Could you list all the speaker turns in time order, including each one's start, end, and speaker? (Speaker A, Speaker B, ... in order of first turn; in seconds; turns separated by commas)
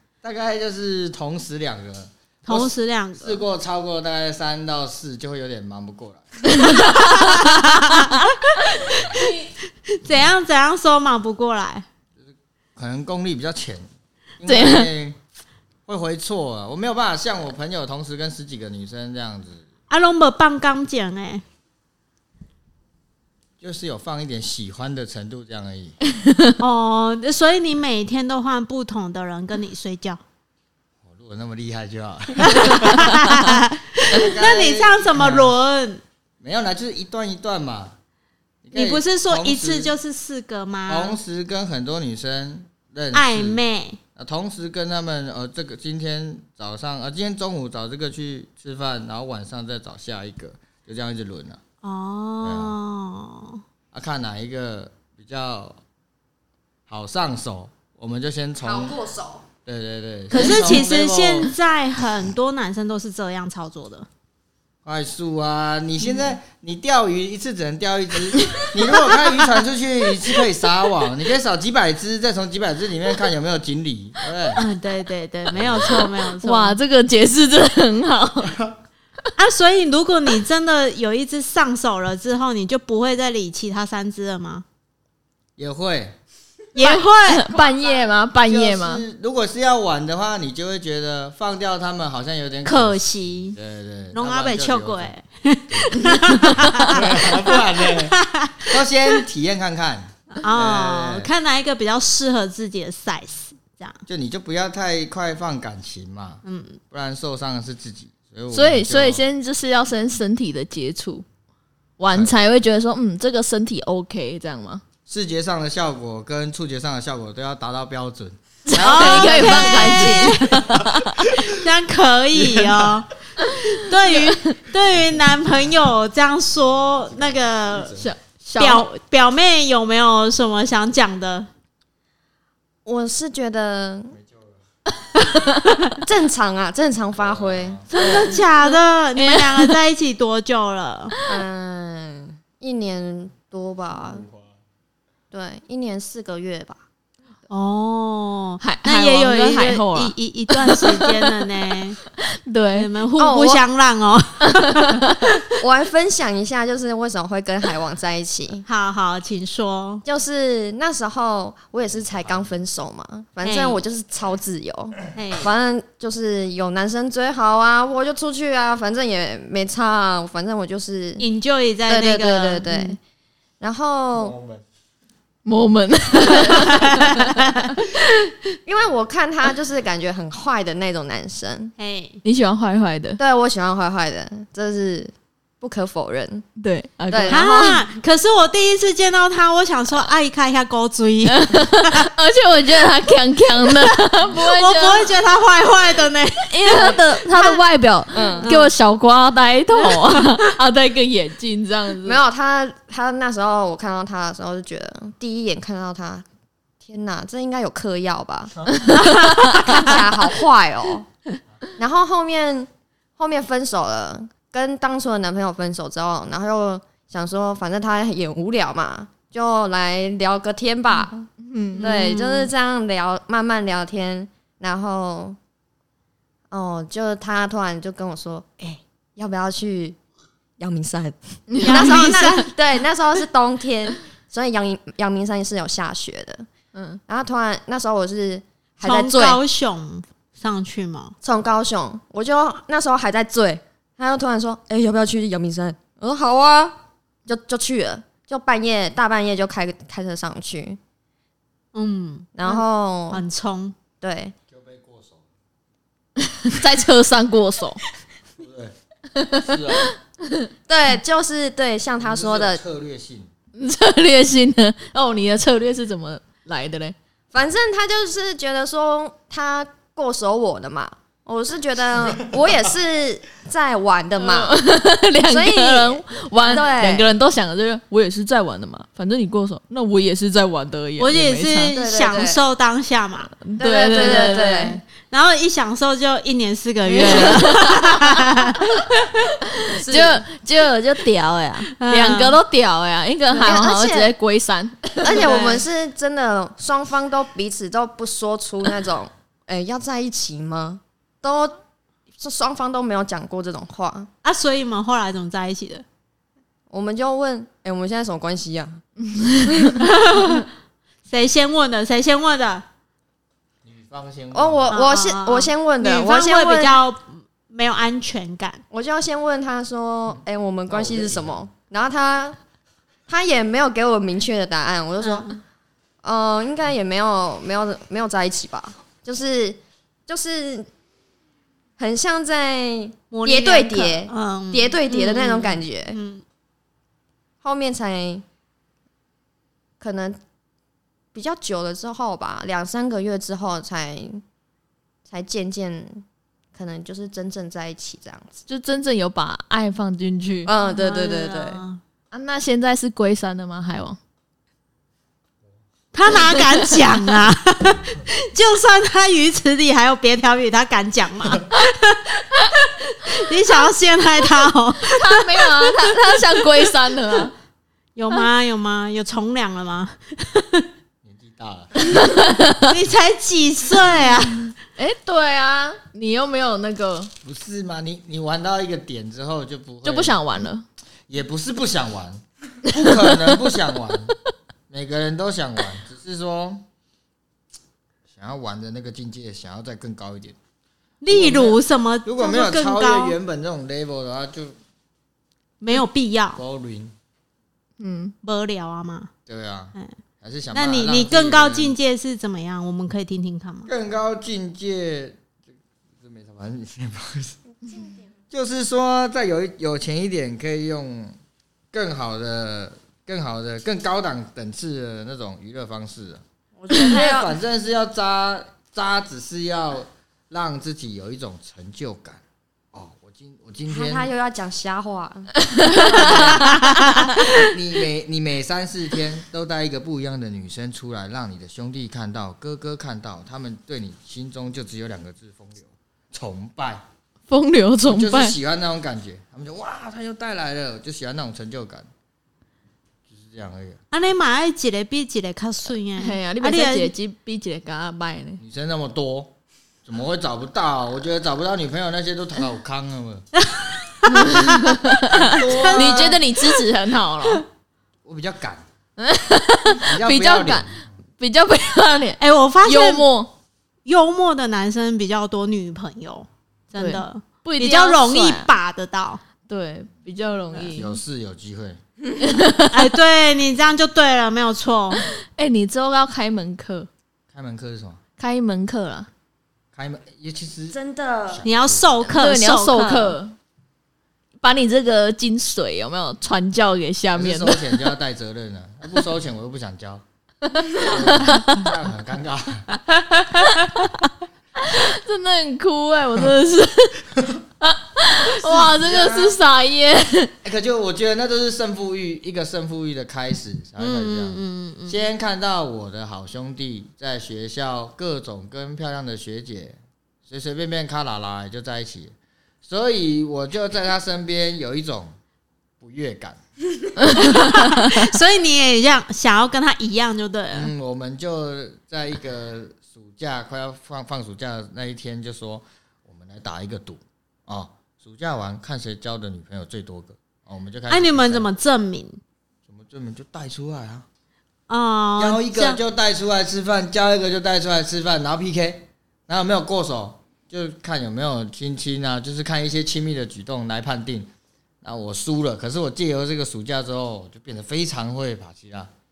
Speaker A: 0.2-7.3, Speaker B: 2.5-3.4, Speaker C: 6.5-7.0, Speaker B: 6.7-11.9, Speaker A: 12.2-13.9, Speaker A: 14.4-15.2, Speaker C: 14.4-14.9, Speaker A: 15.9-19.6, Speaker B: 19.9-21.4, Speaker A: 23.6-26.0, Speaker C: 26.2-26.5, Speaker B: 26.6-30.2, Speaker A: 31.0-33.3, Speaker B: 32.4-36.0, Speaker A: 34.1-35.5, Speaker A: 36.4-38.0, Speaker A: 38.6-39.9, Speaker B: 38.7-41.2, Speaker A: 40.9-43.6, Speaker B: 43.1-44.0, Speaker A: 44.2-51.6, Speaker B: 51.8-53.6, Speaker A: 52.4-52.8, Speaker A: 53.9-55.8, Speaker A: 56.9-59.0, Speaker D: 58.6-59.5, Speaker A: 59.6-61.5, Speaker B: 60.3-64.1, Speaker A: 64.8-74.6, Speaker B: 66.0-66.3, Speaker C: 68.3-69.5, Speaker B: 74.5-76.8, Speaker A: 75.5-76.1, Speaker C: 76.4-78.6, Speaker B: 79.4-84.7, Speaker A: 85.6-86.2, Speaker B: 86.8-87.5, Speaker C: 86.8-89.0, Speaker A: 88.5-95.1, Speaker B: 92.6-93.6, Speaker B: 94.1-99.2, Speaker A: 95.7-101.3, Speaker B: 100.4-104.0, Speaker A: 104.1-109.2, Speaker B: 106.4-106.8, Speaker C: 108.5-111.2, Speaker C: 112.0-114.8, Speaker A: 115.1-120.4, Speaker C: 118.7-121.3, Speaker B: 118.7-120.8, Speaker B: 121.4-123.1, Speaker A: 122.3-123.0, Speaker C: 123.4-124.3, Speaker B: 123.6-128.0, Speaker A: 127.0-128.1, Speaker C: 128.0-128.8, Speaker B: 128.6-131.5, Speaker D: 132.8-134.2, Speaker A: 134.1-134.6, Speaker D: 136.0-138.4, Speaker A: 137.2-137.8, Speaker B: 137.9-141.2, Speaker C: 138.0-139.7, Speaker C: 141.2-141.4, Speaker D: 141.3-144.2, Speaker A: 144.0-144.6, Speaker D: 145.3-146.8, Speaker B: 147.5-152.0, Speaker C: 148.6-151.3, Speaker C: 152.2-152.9, Speaker B: 152.7-155.2, Speaker D: 153.2-153.6, Speaker C: 154.5-154.9, Speaker D: 155.6-158.7, Speaker B: 158.7-160.0, Speaker D: 160.1-171.2, Speaker B: 163.4-163.8, Speaker B: 165.2-165.5, Speaker B: 171.2-172.6, Speaker D: 171.9-173.0, Speaker D: 173.6-174.4, Speaker A: 174.2-174.6, Speaker C: 175.5-178.0, Speaker B: 176.3-177.7, Speaker D: 178.7-181.7, Speaker B: 181.8-182.2, Speaker C: 182.2-183.2, Speaker D: 183.2-186.4, Speaker C: 186.6-187.8, Speaker D: 187.1-187.8, Speaker B: 187.3-192.1, Speaker C: 191.2-195.1, Speaker B: 194.3-196.9, Speaker C: 196.5-202.2, Speaker D: 196.7-198.5, Speaker B: 198.4-198.7, Speaker B: 199.8-200.4, Speaker D: 202.0-206.3, Speaker D: 206.8-208.8, Speaker C: 208.9-209.6, Speaker B: 208.9-210.0, Speaker D: 209.3-211.1, Speaker D: 211.8-225.4, Speaker C: 221.4-221.9, Speaker B: 221.8-222.5, Speaker D: 226.5-230.0, Speaker D: 230.6-236.5, Speaker C: 231.5-232.5, Speaker B: 231.6-232.5, Speaker C: 236.7-237.0, Speaker D: 237.1-239.4, Speaker B: 238.8-241.1, Speaker D: 241.2-250.8, Speaker B: 251.7-253.8, Speaker D: 252.3-253.2, Speaker D: 254.0-254.3, Speaker A: 254.5-255.3, Speaker C: 256.2-257.8, Speaker A: 258.4-258.7, Speaker C: 259.1-260.5, Speaker A: 259.3-260.0, Speaker D: 260.7-262.6, Speaker A: 262.0-263.3, Speaker C: 263.6-266.9, Speaker D: 267.3-274.6, Speaker C: 274.2-281.8, Speaker D: 275.3-277.1, Speaker B: 281.0-289.4, Speaker D: 281.7-282.4, Speaker C: 283.4-284.8, Speaker D: 283.6-284.8, Speaker C: 286.9-288.4, Speaker C: 289.5-295.6, Speaker D: 289.7-290.2, Speaker B: 291.7-292.4, Speaker D: 293.4-294.1, Speaker D: 295.0-301.6, Speaker D: 302.2-304.1, Speaker B: 304.2-305.9, Speaker D: 306.7-308.8, Speaker C: 309.0-309.8, Speaker B: 309.8-310.5, Speaker B: 311.1-312.6, Speaker A: 313.6-314.7, Speaker D: 314.3-316.8, Speaker B: 314.7-318.6, Speaker D: 318.7-322.4, Speaker A: 320.7-321.5, Speaker D: 323.1-325.4, Speaker B: 325.0-325.4, Speaker D: 326.0-330.7, Speaker D: 331.8-336.0, Speaker B: 333.1-336.2, Speaker D: 337.4-338.2, Speaker D: 339.8-340.2, Speaker D: 341.1-344.2, Speaker D: 345.1-348.4, Speaker C: 348.5-350.5, Speaker D: 350.5-351.6, Speaker B: 350.6-351.8, Speaker C: 352.1-354.0, Speaker B: 355.9-366.0, Speaker C: 364.8-367.3, Speaker B: 368.0-370.7, Speaker A: 371.0-372.0, Speaker C: 371.8-372.7, Speaker B: 372.7-374.5, Speaker C: 374.8-377.1, Speaker A: 377.2-380.2, Speaker C: 379.8-380.6, Speaker A: 381.1-384.2, Speaker A: 384.7-386.6, Speaker A: 388.1-390.4, Speaker B: 391.0-393.2, Speaker A: 391.1-394.6, Speaker B: 395.6-396.4, Speaker A: 396.4-396.9, Speaker C: 397.8-398.1, Speaker B: 398.2-399.1, Speaker A: 399.3-401.8, Speaker B: 400.5-403.7, Speaker A: 403.7-405.3, Speaker A: 406.0-407.4, Speaker A: 408.3-411.2, Speaker A: 411.7-422.2, Speaker D: 416.6-417.4, Speaker A: 422.7-424.1, Speaker D: 423.7-425.3, Speaker C: 425.6-426.1, Speaker A: 425.9-436.9, Speaker B: 425.9-427.3, Speaker C: 437.3-438.4, Speaker A: 437.9-441.9, Speaker A: 443.1-443.8, Speaker B: 443.9-446.9, Speaker C: 446.0-448.4, Speaker A: 448.4-453.2, Speaker B: 453.4-456.1, Speaker C: 454.1-457.4, Speaker A: 455.0-456.2, Speaker A: 458.1-458.6, Speaker C: 459.0-463.3, Speaker A: 459.8-460.8, Speaker B: 462.2-463.1, Speaker B: 463.9-469.2, Speaker C: 466.8-468.5, Speaker C: 469.5-471.0, Speaker A: 470.7-471.8, Speaker C: 472.2-472.9, Speaker B: 472.7-475.0, Speaker C: 475.0-476.9, Speaker A: 477.3-478.0, Speaker C: 478.2-479.1, Speaker A: 479.8-482.1, Speaker D: 480.7-481.4, Speaker B: 481.4-483.1, Speaker C: 482.1-483.4, Speaker C: 484.4-487.8, Speaker A: 487.1-490.0, Speaker C: 490.5-491.6, Speaker A: 490.7-492.8, Speaker B: 493.3-494.0, Speaker C: 494.6-500.4, Speaker A: 498.3-499.4, Speaker A: 500.4-515.1, Speaker B: 503.8-505.0, Speaker A: 515.8-516.4, Speaker B: 517.1-520.7, Speaker A: 520.5-531.5, Speaker B: 530.9-532.2, Speaker A: 532.7-534.1, Speaker B: 534.7-535.8, Speaker A: 535.2-548.9